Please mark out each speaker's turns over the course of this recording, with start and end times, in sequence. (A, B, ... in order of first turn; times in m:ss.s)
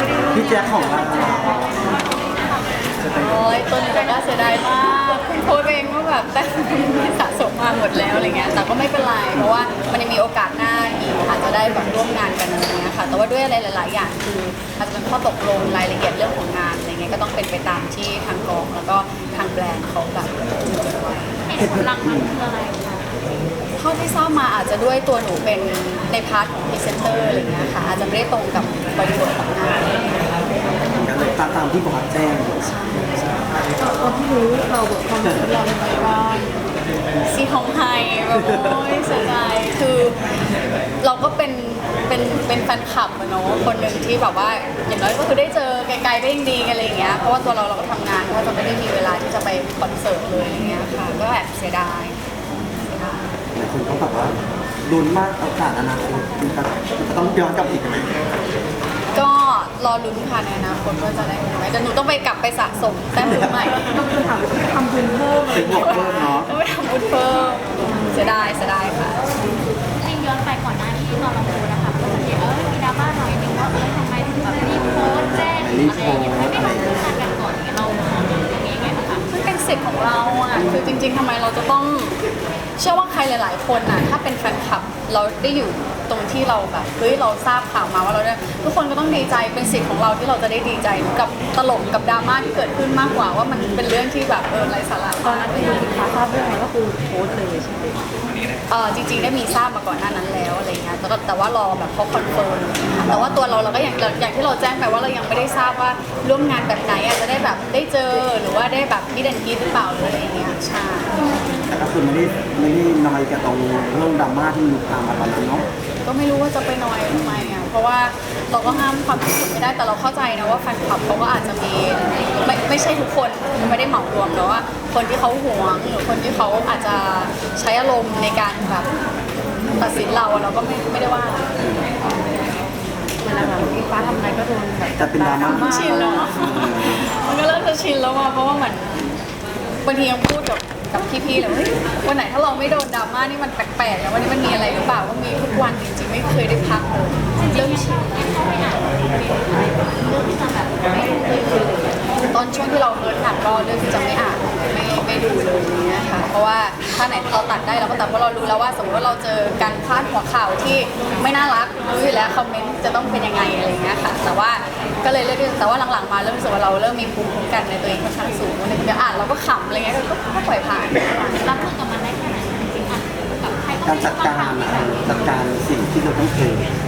0:00.3-0:01.6 A
0:01.3-0:01.5 B
0:01.4-0:02.7 C
0:03.2-0:21.4 D
0:21.5-0:23.1 C
0:21.6-0:22.3 A
0:23.8-0:30.3 D
0:30.9-0:32.6 A
0:32.5-0:33.6 D
0:33.8-0:36.5 B
0:35.2-0:35.5 A
0:37.3-0:40.2 D
0:38.3-0:39.0 A
0:41.0-0:52.2 D
0:52.9-0:53.2 D
0:53.5-0:58.1 A
0:59.1-1:04.0 D
1:03.2-1:03.6 A
1:03.9-1:06.0 B
1:05.5-1:06.5 A
1:05.5-1:09.2 D
1:10.0-1:19.2 C
1:14.6-1:16.9 A
1:19.3-1:22.2 D
1:20.5-1:21.0 A
1:22.8-1:35.8 D
1:35.2-1:38.0 B
1:38.7-1:51.2 D
1:43.0-1:43.3 A
1:51.7-1:55.6 A
1:56.0-2:08.9 D
1:57.1-1:57.5 A
2:09.8-2:11.5 D
2:11.6-2:11.9 A
2:13.2-2:16.4 B
2:15.0-2:17.0 A
2:15.4-2:19.0 D
2:19.8-2:28.0 D
2:27.4-2:31.9 C
2:32.3-2:51.7 D
2:51.3-2:55.4 C
2:53.8-2:56.7 A